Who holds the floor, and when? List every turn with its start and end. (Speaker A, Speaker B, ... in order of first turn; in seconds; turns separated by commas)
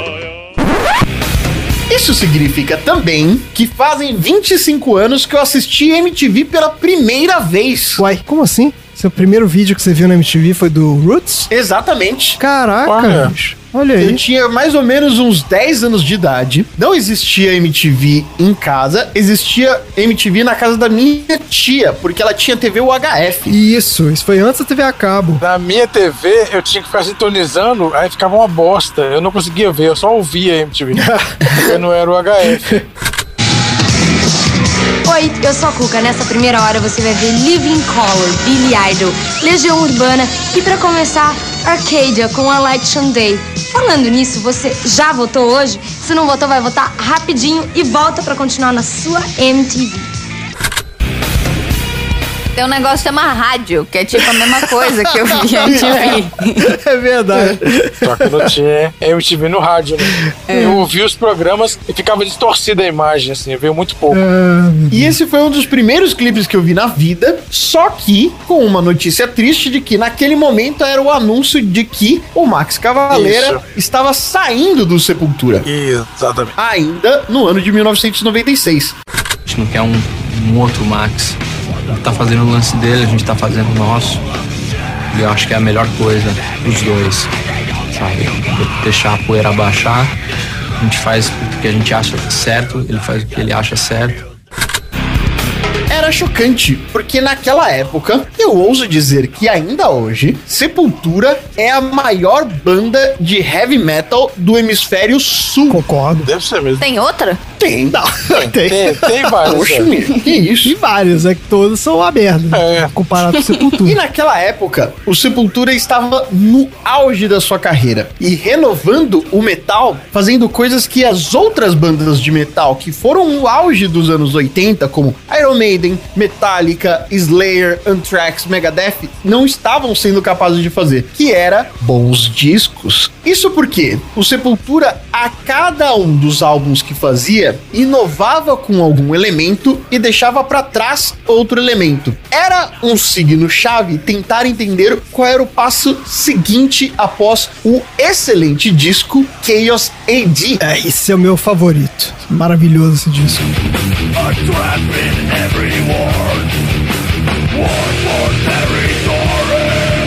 Speaker A: 1.9-8.0, Speaker B: 8.0-11.5, Speaker A: 11.5-12.4, Speaker B: 12.4-14.2, Speaker C: 12.8-13.3, Speaker A: 14.0-23.5, Speaker B: 23.5-25.4, Speaker C: 25.4-32.8, Speaker B: 30.9-31.7, Speaker D: 35.0-50.1, Speaker E: 52.5-56.6, Speaker B: 54.2-58.5, Speaker C: 58.0-64.2, Speaker B: 60.1-60.8, Speaker B: 64.1-65.2, Speaker A: 64.9-75.7, Speaker C: 73.1-73.6, Speaker C: 75.6-76.5, Speaker A: 76.6-79.0, Speaker F: 79.5-84.2, Speaker F: 85.1-87.3, Speaker F: 87.9-90.1, Speaker F: 90.8-94.2, Speaker A: 95.9-105.8, Speaker B: 105.7-106.3, Speaker C: 106.2-106.8, Speaker E: 106.8-107.4, Speaker A: 107.6-108.0, Speaker B: 107.9-109.1, Speaker C: 108.4-109.9, Speaker A: 109.4-110.7, Speaker B: 110.6-114.0, Speaker C: 112.5-112.9, Speaker A: 113.8-150.6, Speaker B: 150.6-153.5